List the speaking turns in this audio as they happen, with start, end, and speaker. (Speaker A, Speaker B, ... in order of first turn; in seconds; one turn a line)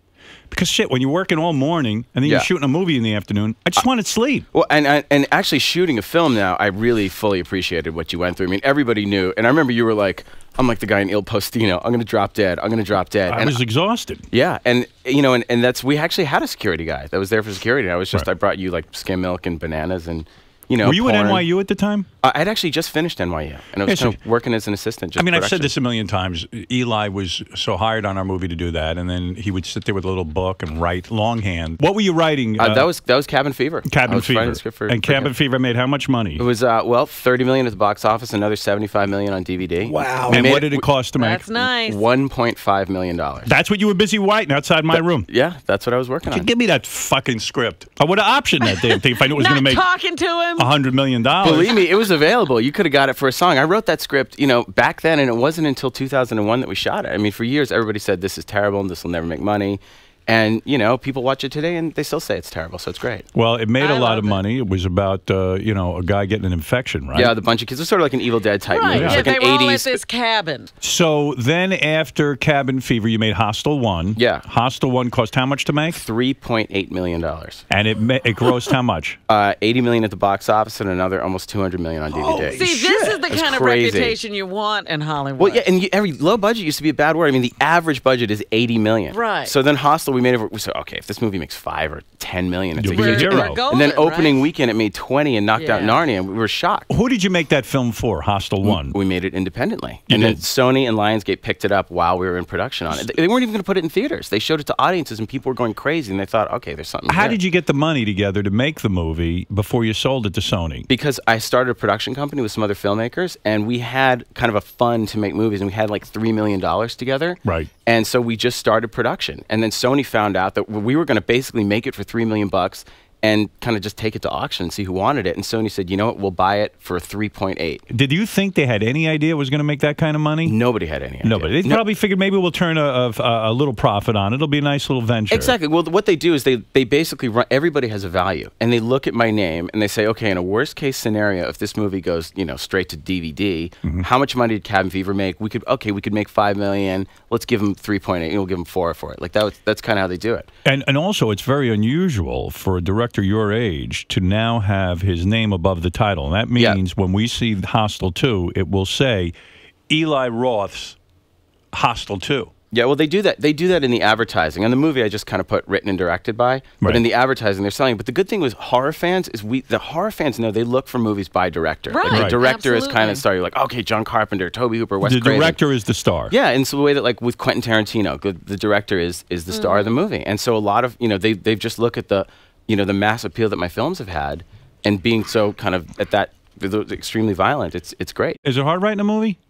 Speaker A: 0.5-4.5
Speaker B: 2.2-2.5
Speaker B: 4.5-13.6
Speaker A: 13.3-14.2
Speaker B: 14.3-21.4
Speaker A: 20.8-22.1
Speaker B: 22.2-25.7
Speaker A: 23.9-24.2
Speaker A: 25.2-32.9
Speaker B: 32.6-35.3
Speaker A: 33.8-36.4
Speaker B: 36.4-40.9
Speaker A: 39.8-41.6
Speaker C: 41.2-42.0
Speaker B: 41.8-43.5
Speaker A: 43.5-45.3
Speaker B: 44.9-46.5
Speaker A: 46.2-49.8
Speaker C: 48.6-50.7
Speaker A: 50.5-51.7
Speaker B: 51.4-63.2
Speaker A: 63.3-67.3
Speaker C: 63.8-64.4
Speaker B: 67.1-70.0
Speaker C: 68.7-70.7
Speaker A: 68.9-69.3
Speaker A: 70.8-76.0
Speaker B: 74.2-74.4
Speaker B: 75.9-77.6
Speaker A: 77.7-79.2
Speaker B: 79.3-82.6
Speaker A: 82.1-83.3
Speaker C: 82.5-85.7
Speaker B: 83.3-84.2
Speaker B: 85.4-96.9
Speaker C: 89.1-89.5
Speaker A: 92.8-93.6
Speaker C: 92.9-94.4
Speaker C: 95.5-96.0
Speaker A: 96.9-99.0
Speaker B: 98.6-107.4
Speaker A: 100.1-100.4
Speaker A: 107.1-110.9
Speaker B: 110.9-127.8
Speaker A: 127.9-130.5
Speaker B: 130.4-131.8
Speaker A: 131.2-135.5
Speaker B: 135.3-150.5
Speaker A: 150.7-159.3
Speaker B: 156.6-156.8
Speaker A: 159.9-161.0
Speaker A: 161.7-162.5
Speaker B: 162.7-175.6
Speaker C: 171.9-173.2
Speaker A: 172.1-172.4
Speaker A: 175.0-176.3
Speaker B: 176.3-188.4
Speaker C: 179.5-180.0
Speaker A: 188.4-189.4